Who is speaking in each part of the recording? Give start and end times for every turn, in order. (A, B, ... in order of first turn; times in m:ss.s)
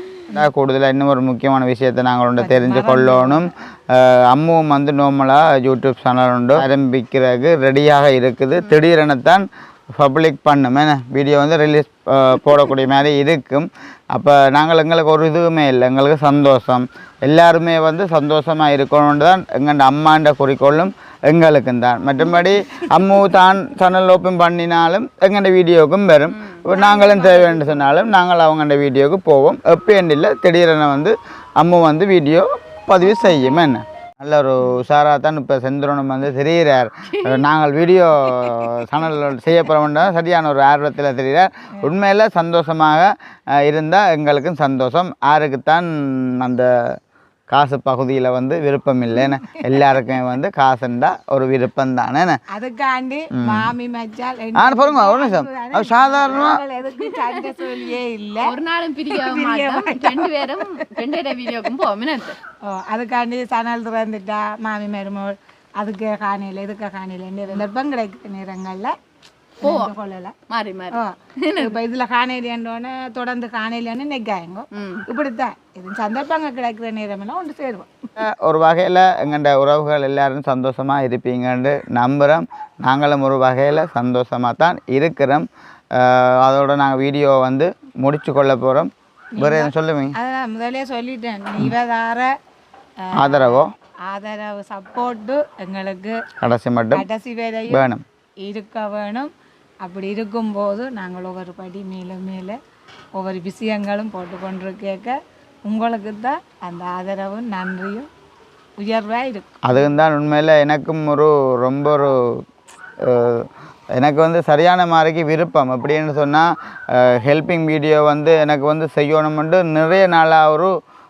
0:00.3-0:47.0 A
0:02.4-0:03.5 B
0:26.3-0:26.6 C
0:26.7-0:27.9 B
0:37.1-0:37.4 C
0:38.2-0:38.8 C
0:47.5-0:52.4 A
0:52.5-0:58.5 B
0:53.4-0:53.7 A
0:54.5-0:56.6 A
0:57.0-0:57.4 C
0:58.4-1:02.4 C
0:59.1-1:00.6 B
1:02.6-1:08.9 B
1:09.6-1:09.9 C
1:09.6-1:10.4 B
1:10.5-1:11.8 C
1:10.9-1:18.0 B
1:14.7-1:15.0 C
1:18.2-1:30.1 A
1:29.4-1:32.3 B
1:33.1-1:36.2 B
1:33.2-1:33.7 A
1:36.4-1:37.0 A
1:36.9-1:37.9 B
1:37.7-1:38.0 A
1:38.4-1:39.3 B
1:39.8-1:42.6 B
1:43.2-1:48.1 B
1:48.8-1:49.8 B
1:49.6-1:52.4 A
1:53.0-2:00.7 A